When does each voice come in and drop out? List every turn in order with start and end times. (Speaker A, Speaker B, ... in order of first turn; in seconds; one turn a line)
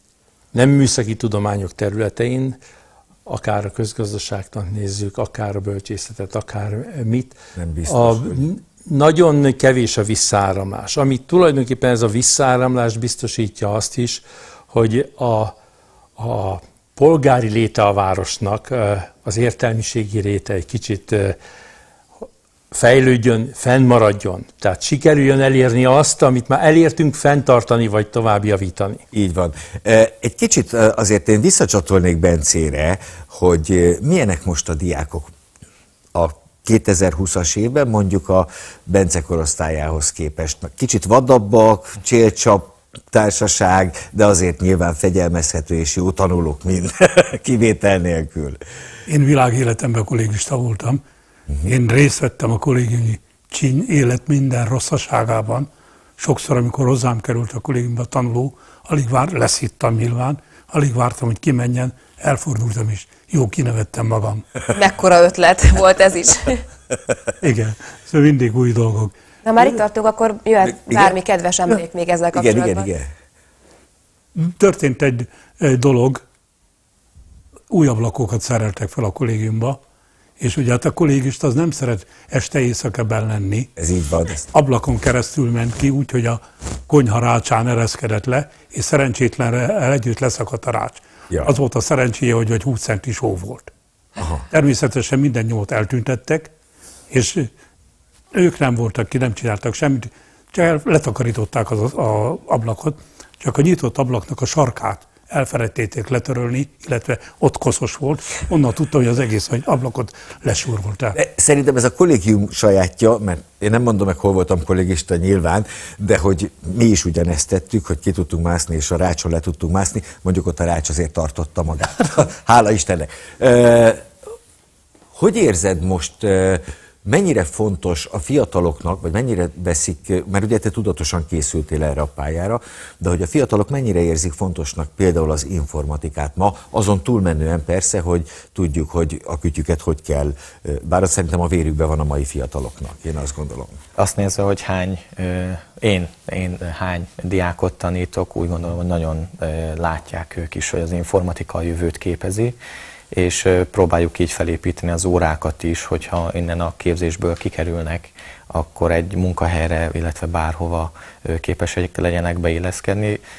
Speaker A: 0.5-2.6
Speaker A: 3.2-15.5
Speaker B: 7.5-8.4
Speaker A: 16.2-21.4
Speaker A: 22.7-29.0
Speaker B: 29.1-35.3
Speaker B: 36.1-48.6
Speaker C: 49.1-51.0
Speaker C: 51.6-64.5
Speaker D: 64.7-66.6
Speaker C: 67.4-69.1
Speaker D: 69.4-72.9
Speaker B: 70.6-73.1
Speaker C: 74.3-76.2
Speaker C: 77.7-79.8
Speaker C: 80.4-83.7
Speaker B: 83.8-84.4
Speaker C: 84.5-93.7
Speaker C: 94.5-96.5
Speaker C: 97.1-97.5
Speaker C: 98.3-111.2
Speaker B: 111.2-124.0
Speaker B: 125.1-143.7
Speaker E: 144.0-152.6
Speaker E: 153.1-163.2